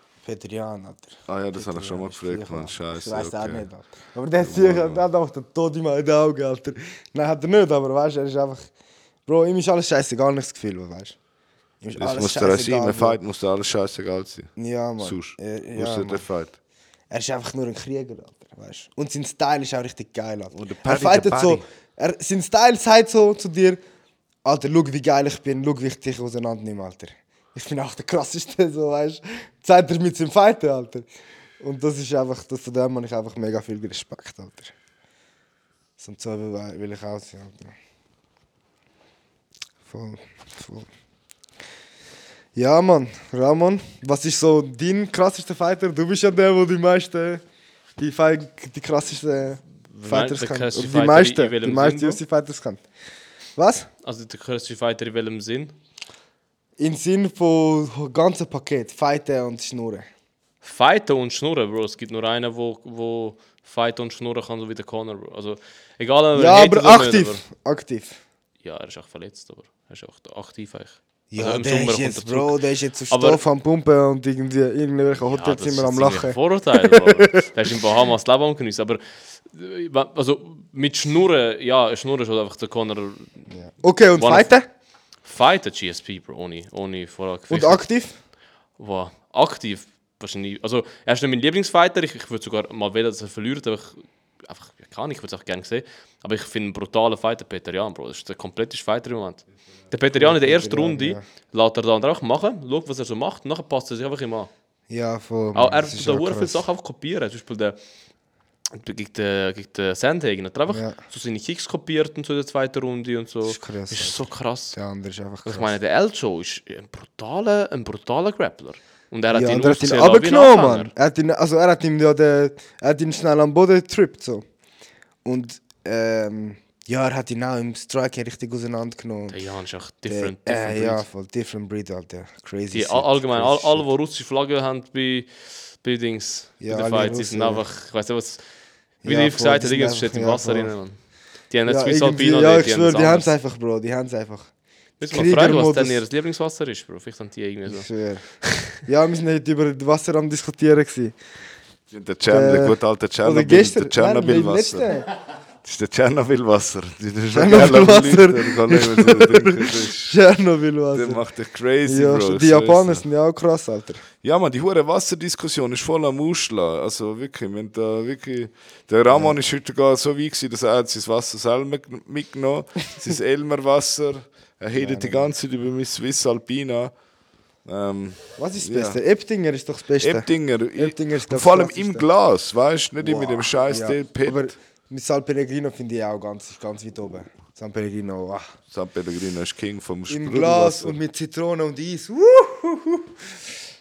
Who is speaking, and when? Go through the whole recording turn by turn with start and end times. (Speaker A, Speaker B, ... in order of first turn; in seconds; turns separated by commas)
Speaker A: 0.2-8.7, Speaker B: 1.3-3.6, Speaker B: 4.4-5.0, Speaker A: 9.2-11.2, Speaker A: 11.8-13.2, Speaker B: 12.0-16.5, Speaker A: 14.6-16.2, Speaker A: 17.1-23.8, Speaker B: 20.5-21.6, Speaker A: 24.4-31.1, Speaker A: 31.6-34.7, Speaker A: 36.0-37.7, Speaker A: 39.9-40.9, Speaker A: 42.5-47.4, Speaker A: 48.0-52.8, Speaker C: 49.9-52.2, Speaker A: 53.5-53.9, Speaker C: 54.0-55.7, Speaker A: 56.8-60.1, Speaker C: 60.6-67.4, Speaker A: 66.3-68.2, Speaker C: 68.6-73.4, Speaker A: 71.3-77.5, Speaker C: 75.2-83.4, Speaker A: 83.5-84.7, Speaker C: 84.2-84.5, Speaker C: 85.2-87.8, Speaker A: 87.5-88.2, Speaker C: 88.8-104.5, Speaker A: 100.1-101.2, Speaker A: 104.9-106.6, Speaker C: 105.5-107.8, Speaker C: 108.7-114.8, Speaker A: 110.7-111.0, Speaker A: 113.4-115.7, Speaker C: 115.5-120.9, Speaker A: 119.3-124.4, Speaker A: 125.2-129.4, Speaker C: 129.3-131.1, Speaker A: 130.1-133.9, Speaker C: 132.7-138.4, Speaker A: 136.6-137.6, Speaker A: 139.0-140.7, Speaker C: 139.0-140.9, Speaker C: 141.5-143.3, Speaker A: 141.7-144.5, Speaker C: 145.0-147.9, Speaker A: 145.1-146.0, Speaker A: 147.7-151.1, Speaker B: 151.9-154.9, Speaker A: 152.3-155.1, Speaker B: 155.6-160.2, Speaker A: 157.3-161.2, Speaker B: 160.9-163.0, Speaker A: 161.8-164.0, Speaker B: 164.2-176.9, Speaker A: 169.1-169.3, Speaker A: 174.8-175.3, Speaker B: 177.6-179.0, Speaker A: 178.4-182.1, Speaker B: 180.0-184.5, Speaker A: 183.0-188.5, Speaker B: 188.7-191.0, Speaker A: 190.1-193.2